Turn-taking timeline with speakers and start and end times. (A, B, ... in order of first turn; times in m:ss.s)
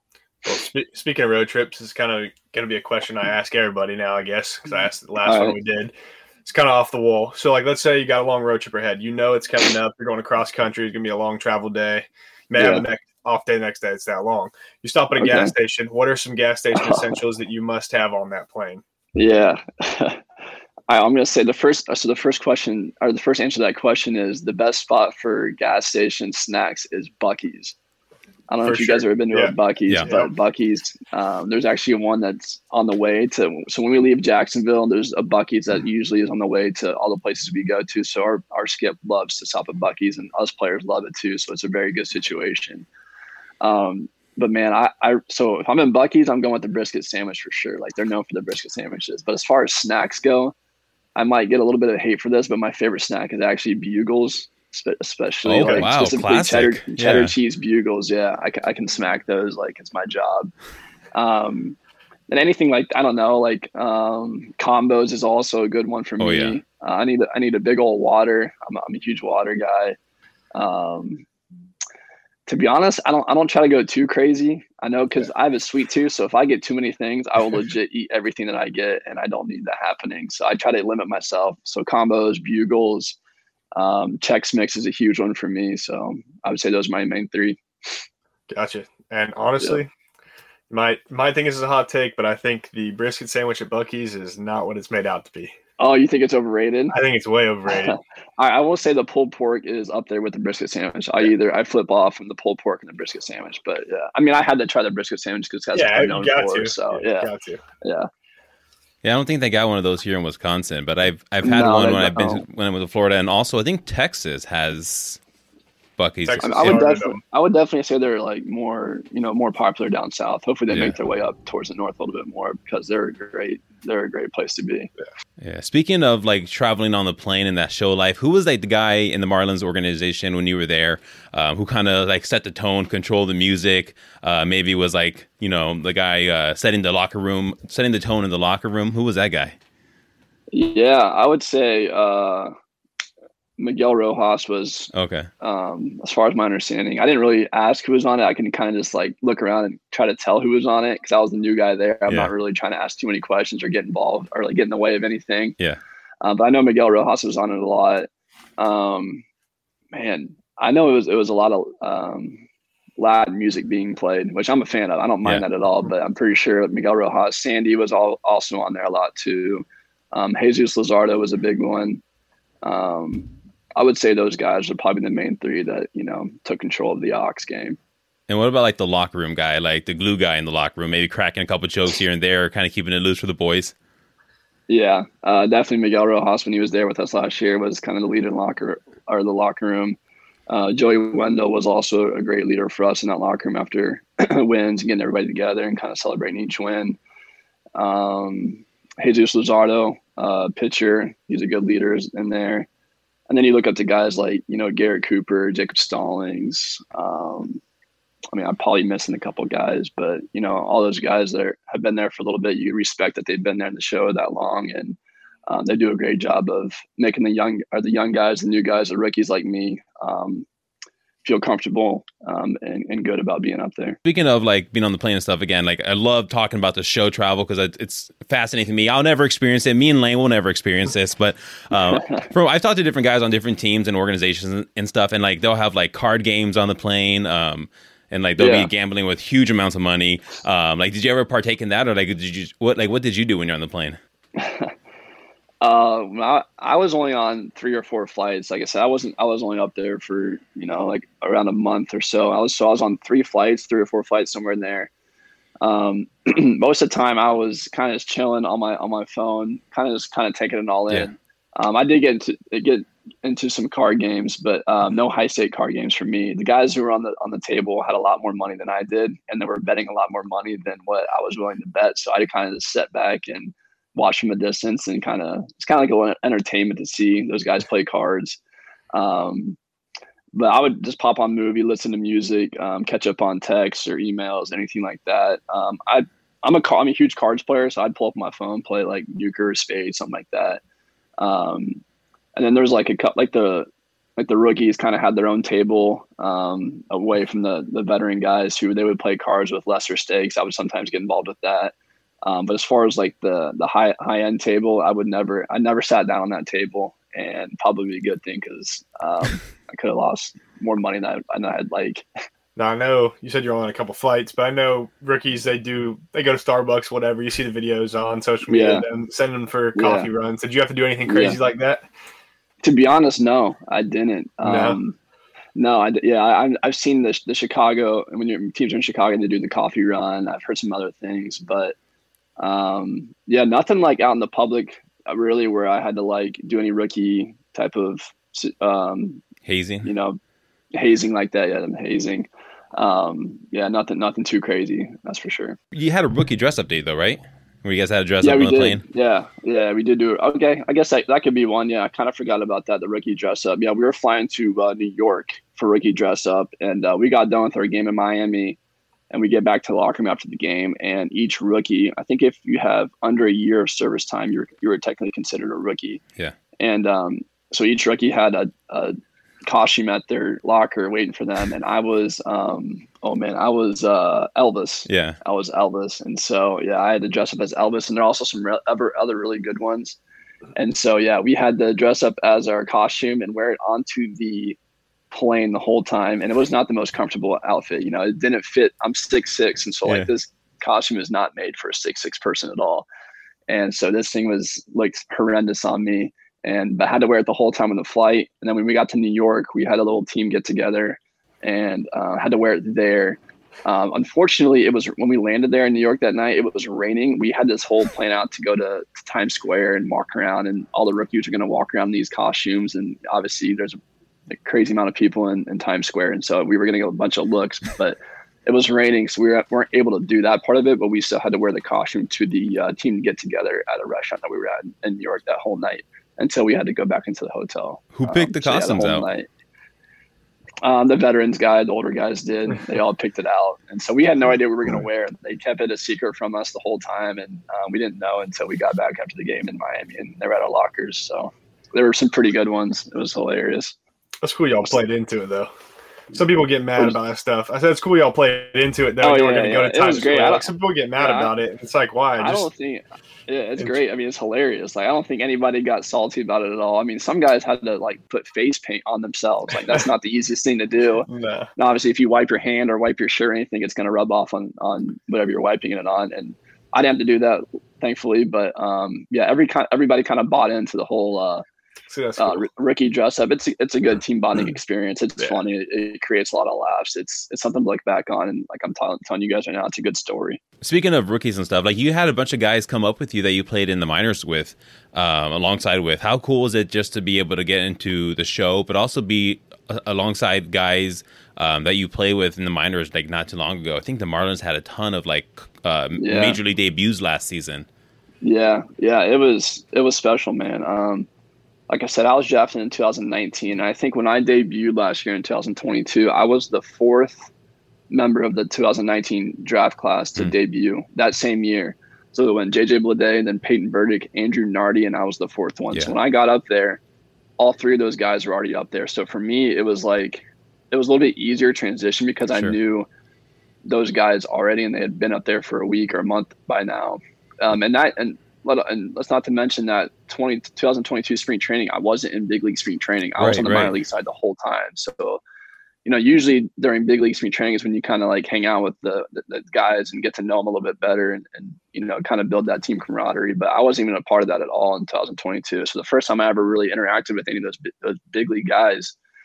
0:00.4-0:05.9 A
0:05.2-0:05.6 B
0:06.4-0:18.8 A
0:12.6-0:12.8 B
0:15.2-0:15.5 B
0:16.7-0:17.1 B
0:19.1-0:20.2 B
0:20.9-0:27.7 B
0:28.5-0:42.8 B
0:28.6-0:30.3 A
0:43.6-0:50.5 B
0:51.2-1:00.5 B
0:55.4-0:57.3 C
0:55.6-0:55.9 A
1:01.1-1:01.8 B
1:02.3-1:10.0 B
1:06.2-1:06.6 C
1:10.5-1:11.2 B
1:12.5-1:23.2 B
1:23.7-1:27.6 B
1:28.5-1:29.9 A
1:30.7-1:35.5 A
1:35.8-1:37.0 B
1:36.9-1:38.0 A
1:37.7-1:47.3 B
1:45.7-1:47.6 A
1:47.8-1:48.1 B
1:49.0-1:55.2 C
1:51.4-1:52.4 B
1:56.0-1:56.8 C
1:56.2-1:57.2 A
1:56.4-2:04.9 B
2:05.4-2:19.6 C
2:20.5-2:22.5 B
2:23.6-2:35.5 B
2:24.9-2:25.3 C
2:36.2-2:39.2 B
2:39.9-2:42.4 B
2:43.0-2:52.0 B
2:52.6-2:57.8 B
2:58.3-3:03.7 C
3:04.7-3:10.0 B
3:10.5-3:17.0 B
3:17.7-3:22.7 B
3:23.3-3:27.6 B
3:28.3-3:40.4 B
3:41.2-3:44.0 B
3:44.0-4:04.0 C
3:51.9-3:52.2 B
3:58.4-3:58.7 B
4:04.4-4:04.7 B
4:05.6-4:14.9 B
4:15.6-4:38.4 B
4:38.9-4:39.6 B
4:40.3-4:50.6 B
4:51.2-4:51.8 B
4:52.3-5:12.0 B
5:12.6-5:21.9 A
5:18.5-5:18.8 B
5:19.7-5:20.1 B
5:21.0-5:21.4 B
5:22.6-5:25.0 B
5:24.4-5:24.8 A
5:25.6-5:31.8 B
5:32.4-5:39.2 B
5:39.4-5:39.9 C
5:39.8-5:40.2 B
5:40.7-5:45.6 B
5:45.7-5:48.8 C
5:48.2-5:58.6 B
5:59.1-6:06.0 B
6:06.6-6:20.0 B
6:14.9-6:15.2 C
6:20.6-6:24.6 B
6:25.1-6:32.8 B
6:33.5-7:09.3 B
7:07.9-7:09.1 C
7:10.6-7:23.8 B
7:24.2-7:25.5 A
7:26.1-7:32.5 A
7:29.0-7:31.3 B
7:32.2-7:51.4 B
7:41.1-7:41.5 A
7:51.9-7:52.5 A
7:52.2-8:00.4 B
8:00.6-8:17.6 C
8:16.0-8:16.4 B
8:18.2-8:21.1 B
8:21.7-8:27.3 B
8:27.9-8:36.8 B
8:37.4-8:42.9 B
8:42.3-8:42.5 C
8:43.6-8:55.2 B
8:53.2-8:53.8 C
8:55.8-9:08.9 B